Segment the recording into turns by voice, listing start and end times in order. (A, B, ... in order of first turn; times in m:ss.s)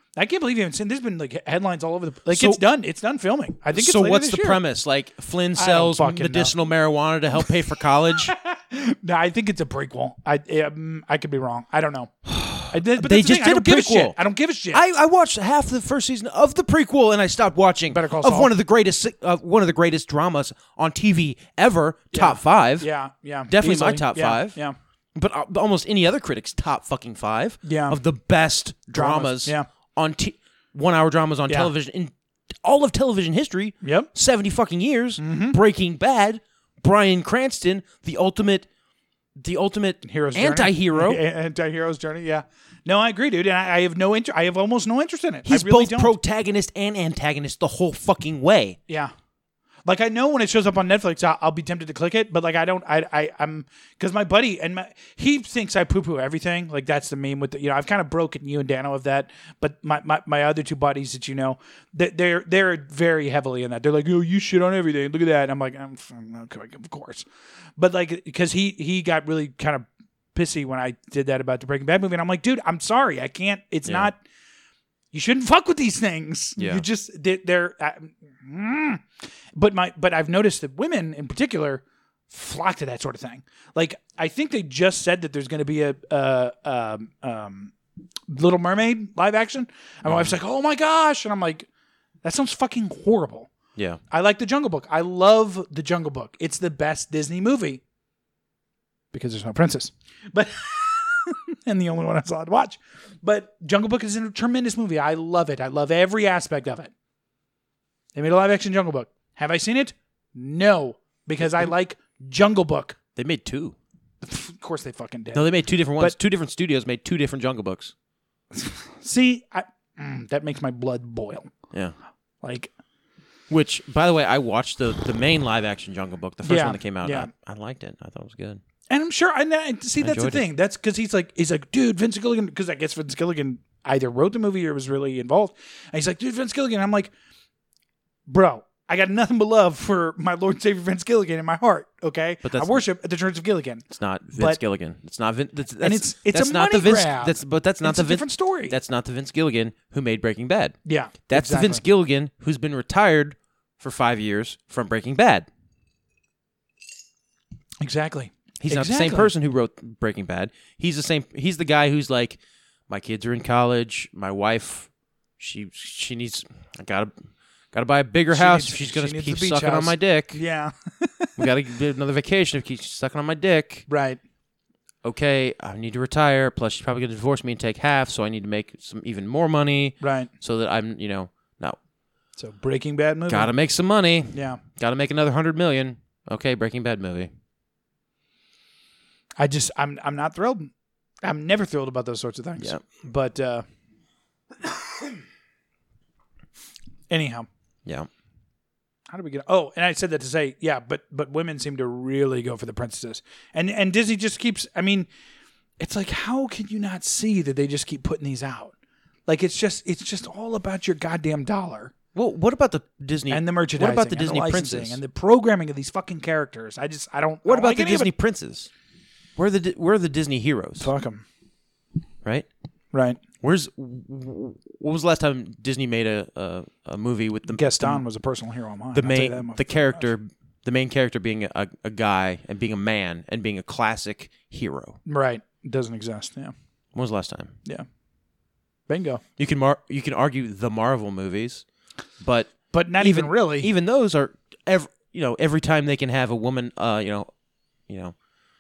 0:00.2-0:04.6 A
0:02.3-0:02.6 B
0:03.7-0:08.3 B
0:05.5-0:06.6 A
0:08.3-0:14.8 A
0:12.2-0:14.2 B
0:14.7-0:22.9 B
0:17.9-0:18.5 A
0:22.1-0:24.7 A
0:23.5-0:24.6 B
0:25.1-0:38.7 B
0:27.6-0:28.0 A
0:28.9-0:29.6 A
0:33.8-0:34.1 A
0:35.2-0:35.6 A
0:39.4-0:41.2 B
0:40.0-0:46.1 A
0:45.4-0:48.8 B
0:49.8-1:07.2 A
1:07.8-1:14.2 A
1:15.1-1:19.0 A
1:16.6-1:16.8 B
1:19.5-1:27.7 A
1:28.3-1:31.7 A
1:30.0-1:30.4 B
1:32.2-1:33.5 A
1:34.1-1:37.8 A
1:39.1-1:46.9 A
1:48.1-1:53.0 A
1:53.2-1:53.8 B
1:54.2-1:56.2 A
1:55.3-1:57.9 B
1:58.5-2:01.5 A
2:02.4-2:02.7 A
2:03.5-2:08.6 B
2:06.4-2:07.3 A
2:08.9-2:17.1 A
2:10.0-2:10.4 B
2:18.3-2:24.6 A
2:22.4-2:22.8 B
2:23.9-2:30.8 B
2:25.8-2:28.7 A
2:30.8-2:31.8 A
2:31.3-2:35.5 B
2:37.8-2:39.3 A
2:38.6-2:50.4 B
2:48.3-2:51.4 A
2:51.4-2:53.8 B
2:53.9-2:54.2 A
2:55.0-3:01.8 B
3:00.0-3:00.3 A
3:02.4-3:03.5 A
3:03.3-3:07.3 B
3:04.3-3:04.6 A
3:09.4-3:10.7 A
3:11.2-3:13.6 A
3:17.1-3:17.5 A
3:19.1-3:25.1 A
3:25.8-3:28.7 A
3:29.3-3:31.9 A
3:32.1-3:35.0 B
3:33.3-3:38.1 A
3:37.4-3:38.7 B
3:39.4-3:40.9 B
3:40.8-3:41.2 A
3:42.9-3:43.2 A
3:43.4-3:48.0 B
3:47.5-3:50.0 A
3:48.9-3:55.0 B
3:55.0-3:56.5 A
3:56.9-3:57.6 B
3:58.9-3:59.2 A
3:59.4-4:01.6 B
4:02.2-4:07.3 B
4:02.7-4:03.7 A
4:07.9-4:08.1 B